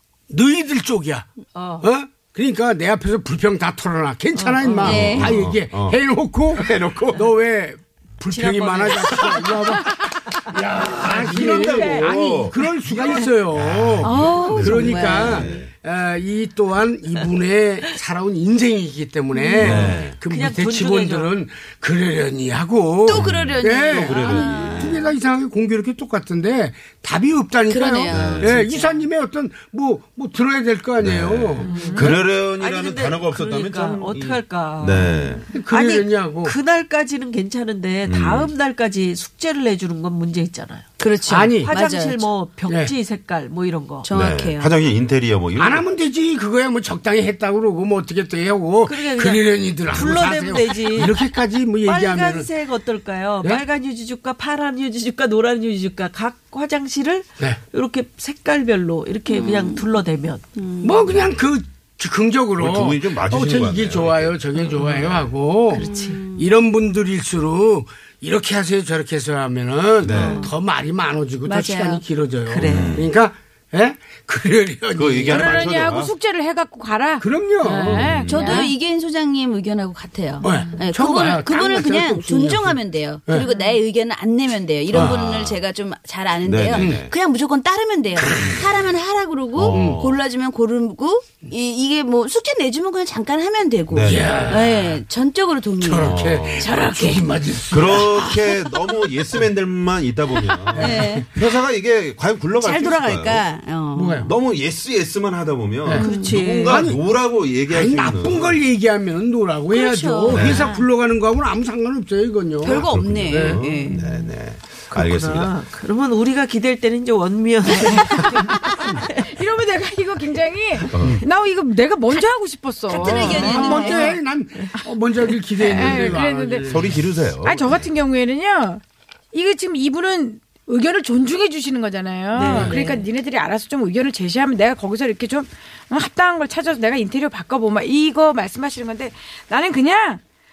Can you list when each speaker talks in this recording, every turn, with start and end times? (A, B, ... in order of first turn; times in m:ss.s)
0:00.3-0:01.3 A
0:01.5-0:01.9 B
0:01.8-0:31.7 A
0:04.3-0:05.2 B
0:04.8-0:06.0 C
0:04.8-0:05.3 D
0:06.5-0:07.2 C
0:08.2-0:12.1 B
0:10.8-0:15.7 C
0:14.0-0:15.5 D
0:19.3-0:19.8 D
0:19.6-0:20.2 C
0:19.8-0:21.3 B
0:23.0-0:25.1 D
0:23.1-0:25.0 C
0:27.7-0:29.0 D
0:28.1-0:28.5 C
0:31.0-0:35.5 C
0:31.6-0:40.8 B
0:31.7-0:32.0 E
0:31.7-0:32.0 D
0:35.0-0:35.4 D
0:35.5-0:36.5 A
0:38.0-0:38.5 C
0:41.0-0:42.3 D
0:41.3-0:41.7 A
0:41.6-0:44.1 B
0:42.7-0:42.9 A
0:44.0-0:44.7 D
0:44.1-0:45.8 C
0:45.6-0:52.5 A
0:48.8-0:51.2 B
0:51.8-1:00.4 B
0:59.3-0:59.9 D
1:00.5-1:01.1 D
1:00.8-1:15.9 A
1:01.1-1:01.6 C
1:02.5-1:05.3 C
1:05.7-1:06.2 B
1:05.7-1:06.5 D
1:10.0-1:10.4 C
1:10.0-1:10.5 B
1:11.4-1:12.0 D
1:12.5-1:13.0 B
1:12.7-1:13.1 C
1:14.9-1:16.1 C
1:15.2-1:18.7 E
1:17.2-1:18.7 A
1:17.8-1:18.5 C
1:18.2-1:37.2 D
1:20.4-1:23.5 A
1:20.4-1:20.7 E
1:24.9-1:25.2 A
1:25.2-1:25.6 C
1:26.4-1:27.1 C
1:28.1-1:28.5 A
1:28.4-1:28.9 C
1:29.5-1:30.2 C
1:29.7-1:30.0 A
1:33.9-1:34.6 C
1:34.0-1:35.0 A
1:35.8-1:38.3 A
1:36.0-1:36.7 C
1:36.7-1:37.0 E
1:37.6-1:43.4 C
1:40.7-1:41.4 A
1:40.8-1:41.3 D
1:42.6-1:44.3 D
1:43.9-1:44.3 A
1:44.2-1:48.7 C
1:45.8-1:47.0 A
1:46.0-1:46.8 B
1:46.0-1:46.4 D
1:47.7-1:53.6 A
1:49.7-1:50.4 D
1:50.3-1:50.7 C
1:52.6-1:54.0 D
1:52.7-1:55.5 C
1:53.9-1:54.1 B
1:54.9-1:59.2 B
1:57.8-1:58.6 E
1:59.2-2:04.2 E
2:00.8-2:01.2 C
2:02.9-2:04.0 D
2:03.0-2:07.0 A
2:03.0-2:04.0 B
2:04.7-2:06.8 E
2:06.7-2:07.8 C
2:07.4-2:20.2 E
2:12.3-2:13.0 B
2:12.5-2:12.8 A